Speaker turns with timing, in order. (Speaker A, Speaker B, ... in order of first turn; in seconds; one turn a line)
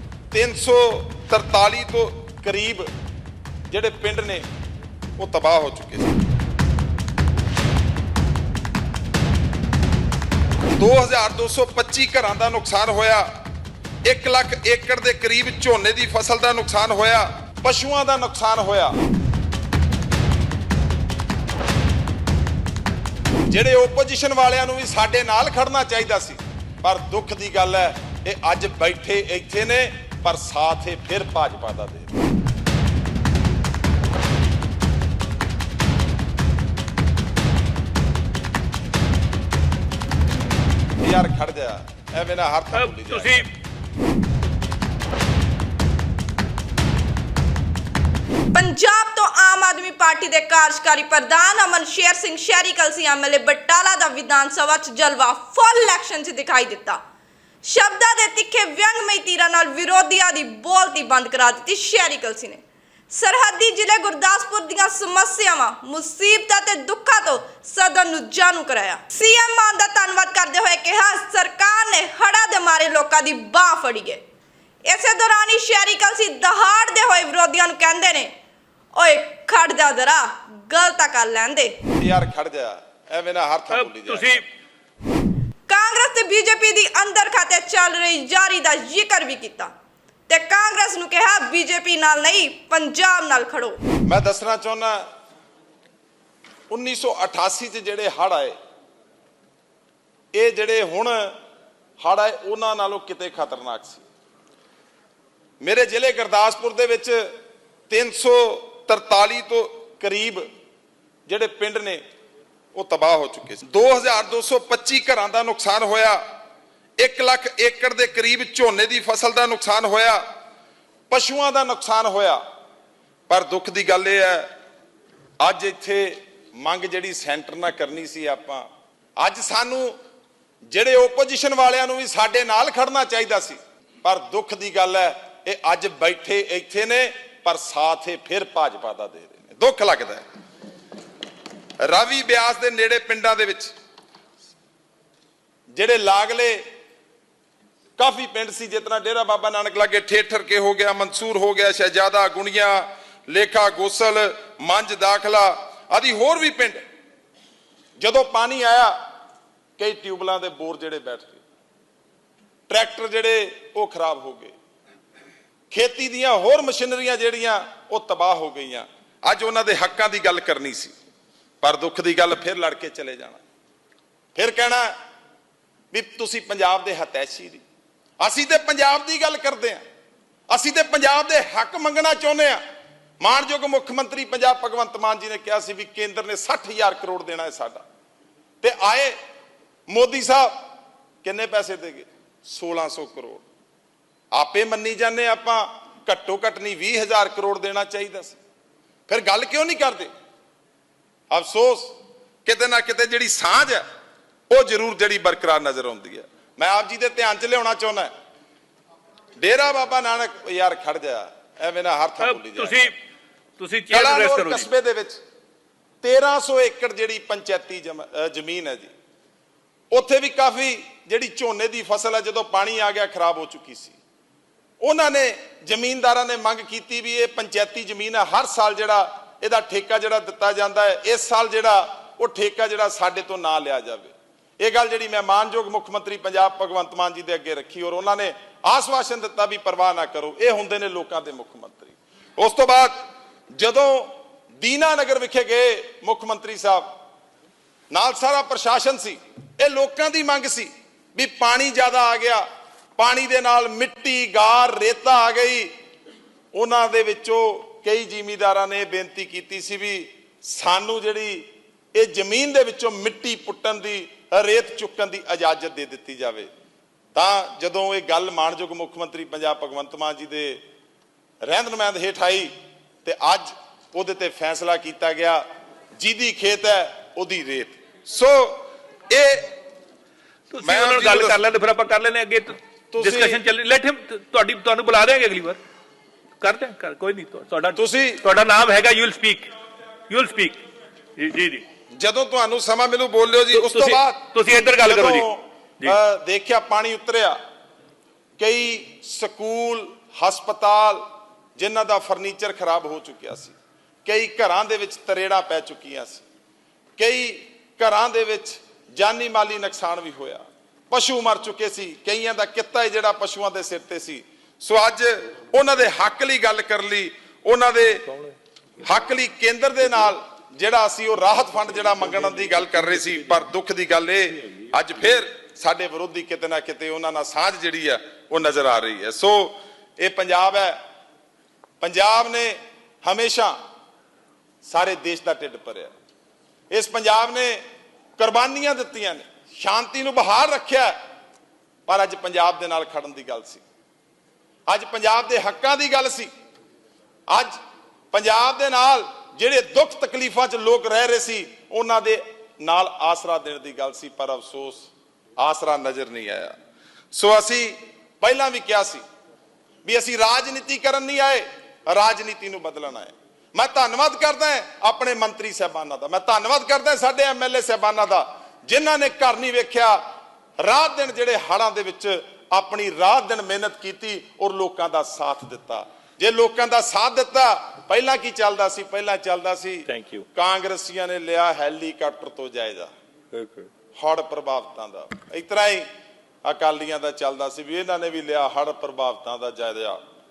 Speaker A: 0.3-2.9
Speaker A: 3.7-4.5
Speaker A: 5.2-6.2
Speaker A: 10.8-13.3
Speaker A: 14.1-19.0
Speaker A: 23.5-32.2
Speaker A: 41.0-43.5
Speaker B: 42.7-43.5
Speaker C: 48.5-57.0
Speaker C: 57.6-74.2
Speaker C: 74.9-78.3
Speaker C: 79.0-81.8
Speaker A: 82.0-84.4
Speaker B: 83.7-84.4
Speaker C: 85.7-89.7
Speaker C: 90.3-93.8
Speaker A: 94.0-95.0
Speaker A: 96.7-98.5
Speaker A: 100.3-101.3
Speaker A: 102.0-104.0
Speaker A: 105.6-107.3
Speaker A: 107.9-110.5
Speaker A: 111.3-112.0
Speaker A: 112.8-116.2
Speaker A: 117.0-120.2
Speaker A: 121.1-122.4
Speaker A: 123.3-124.5
Speaker A: 125.4-128.7
Speaker A: 129.2-130.0
Speaker A: 130.7-140.2
Speaker A: 141.8-143.7
Speaker A: 145.7-146.6
Speaker A: 148.0-156.8
Speaker A: 158.0-159.0
Speaker A: 159.8-161.4
Speaker A: 162.7-164.6
Speaker A: 165.7-170.9
Speaker A: 171.6-173.4
Speaker A: 174.3-174.9
Speaker A: 175.9-177.6
Speaker A: 178.2-179.8
Speaker A: 180.5-182.6
Speaker A: 183.2-187.8
Speaker A: 188.6-189.2
Speaker A: 189.9-190.6
Speaker A: 191.2-193.4
Speaker A: 194.3-198.4
Speaker A: 199.1-200.1
Speaker A: 201.3-201.9
Speaker A: 202.4-203.8
Speaker A: 204.5-208.1
Speaker A: 209.4-212.9
Speaker B: 212.2-212.9
Speaker B: 213.6-214.7
Speaker A: 213.9-215.2
Speaker A: 216.0-218.9
Speaker A: 219.9-224.0
Speaker A: 224.8-243.0
Speaker A: 243.5-246.9
Speaker A: 247.9-252.5
Speaker A: 253.0-255.7
Speaker A: 256.5-266.5
Speaker A: 267.1-270.6
Speaker A: 271.4-272.5
Speaker A: 273.0-275.4
Speaker A: 276.0-279.5
Speaker B: 280.5-285.6
Speaker A: 280.6-281.4
Speaker A: 282.9-283.4
Speaker B: 286.4-289.5
Speaker A: 287.7-288.2
Speaker B: 290.1-290.6
Speaker B: 291.2-291.6
Speaker A: 292.0-297.4
Speaker B: 293.5-295.3
Speaker A: 298.4-301.0
Speaker A: 301.6-303.6
Speaker A: 304.1-306.2
Speaker A: 307.0-318.1
Speaker A: 318.8-330.8
Speaker A: 331.8-333.6
Speaker A: 334.6-335.9
Speaker A: 336.7-337.6
Speaker A: 338.2-341.0
Speaker A: 341.9-343.6
Speaker A: 344.7-346.3
Speaker A: 347.3-347.6
Speaker A: 348.1-356.5
Speaker A: 357.1-359.0
Speaker A: 359.9-370.0
Speaker A: 370.6-382.9
Speaker B: 379.9-380.2
Speaker B: 383.3-383.7
Speaker A: 383.9-385.9
Speaker A: 386.4-390.0